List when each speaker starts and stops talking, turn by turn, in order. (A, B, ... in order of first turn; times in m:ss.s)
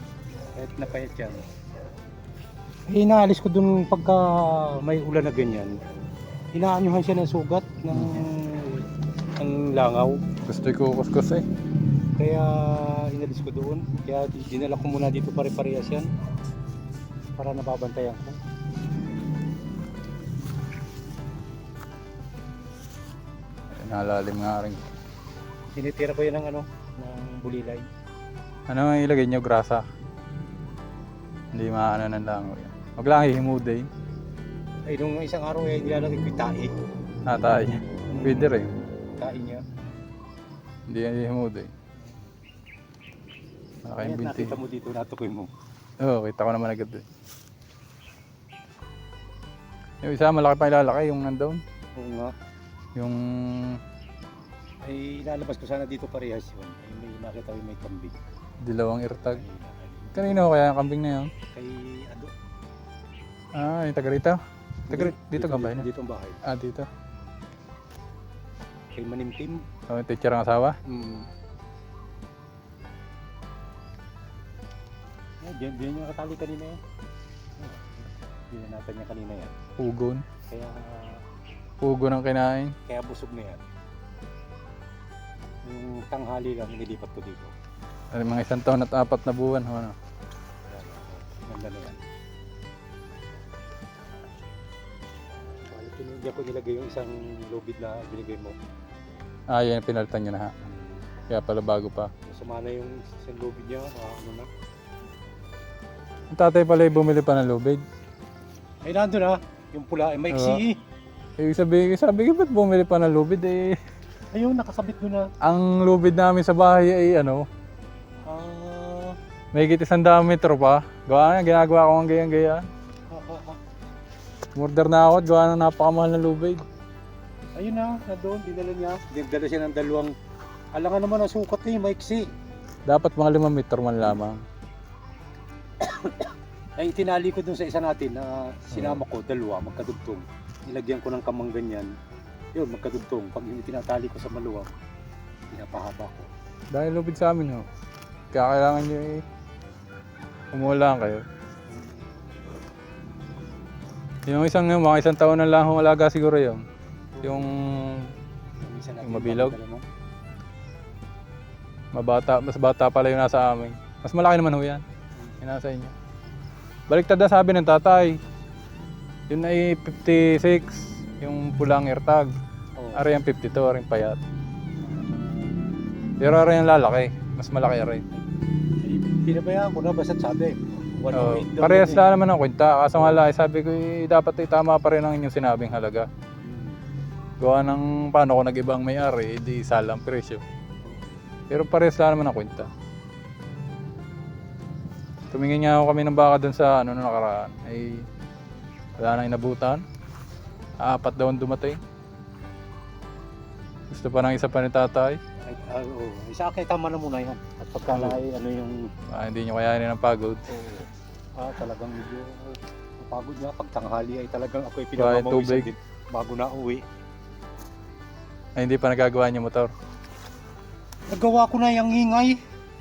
0:00.6-0:01.4 A
0:02.9-0:05.8 A
0:06.5-0:08.8 A
0:07.9-0:08.2 B
0:09.4-0:10.2 A
0:10.5-0:11.4 B
0:12.2-0:16.1 A
0:17.4-0:18.4 A
0:23.8-0:24.8 B
0:25.7-0:27.8 A
0:28.7-0:29.8 B
0:31.5-0:33.9 B
0:34.9-0:36.7 A
0:37.3-0:38.7 B
0:38.1-0:38.5 A
0:39.2-0:39.6 A
0:40.9-0:41.7 B
0:43.8-0:44.6 B
0:44.0-0:45.5 A
0:46.0-0:47.0 B
0:50.0-0:51.6 B
0:52.0-0:52.3 A
0:53.0-0:53.8 B
0:54.8-0:58.1 A
0:58.6-0:59.4 B
0:59.3-1:00.4 A
1:00.1-1:01.3 B
1:01.5-1:02.3 A
1:03.6-1:04.4 B
1:04.9-1:06.4 A
1:04.9-1:05.8 B
1:06.4-1:06.9 B
1:08.9-1:09.6 A
1:09.9-1:10.8 B
1:10.9-1:11.3 A
1:15.4-1:16.8 A
1:17.6-1:19.5 A
1:19.8-1:20.2 B
1:20.5-1:21.2 A
1:21.8-1:22.7 B
1:22.9-1:23.7 A
1:25.6-1:27.5 A
1:28.1-1:29.9 B
1:30.7-1:32.0 A
1:35.7-1:38.6 A
1:39.5-1:40.5 B
1:40.6-1:41.0 A
1:41.3-1:42.1 B
1:42.3-1:44.5 A
1:46.3-1:47.8 B
1:48.8-1:50.8 A
1:50.3-1:50.6 B
1:51.4-1:53.8 B
1:54.3-1:55.2 A
1:55.4-1:57.4 B
1:58.3-1:59.2 A
1:59.5-2:02.7 B
2:03.1-2:03.6 A
2:04.6-2:06.6 B
2:07.6-2:10.1 A
2:10.7-2:12.2 A
2:12.9-2:14.4 B
2:15.8-2:21.9 A
2:18.7-2:19.0 B
2:22.5-2:24.7 A
2:25.5-2:26.3 A
2:26.7-2:27.7 B
2:28.3-2:29.2 B
2:30.5-2:31.2 B
2:31.7-2:32.1 A
2:34.3-2:36.6 B
2:37.1-2:37.5 A
2:37.2-2:38.1 B
2:38.6-2:39.8 A
2:39.0-2:39.5 B
2:41.9-2:44.8 B
2:45.2-2:45.4 A
2:45.4-2:45.9 B
2:46.9-2:48.2 B
2:49.3-2:52.3 B
2:52.8-2:53.0 A
2:52.9-2:54.2 B
2:54.8-2:55.5 A
2:56.2-2:58.0 B
2:58.8-3:02.0 A
3:01.1-3:06.1 B
3:03.0-3:03.2 A
3:06.4-3:06.8 A
3:07.4-3:10.4 B
3:10.8-3:11.2 A
3:11.5-3:12.7 B
3:15.3-3:18.0 B
3:19.0-3:19.8 B
3:20.8-3:21.8 B
3:23.9-3:25.2 B
3:25.5-3:28.8 A
3:27.9-3:28.2 B
3:29.1-3:30.4 B
3:30.5-3:36.8 A
3:35.0-3:35.7 B
3:38.6-3:39.7 B
3:41.1-3:42.4 A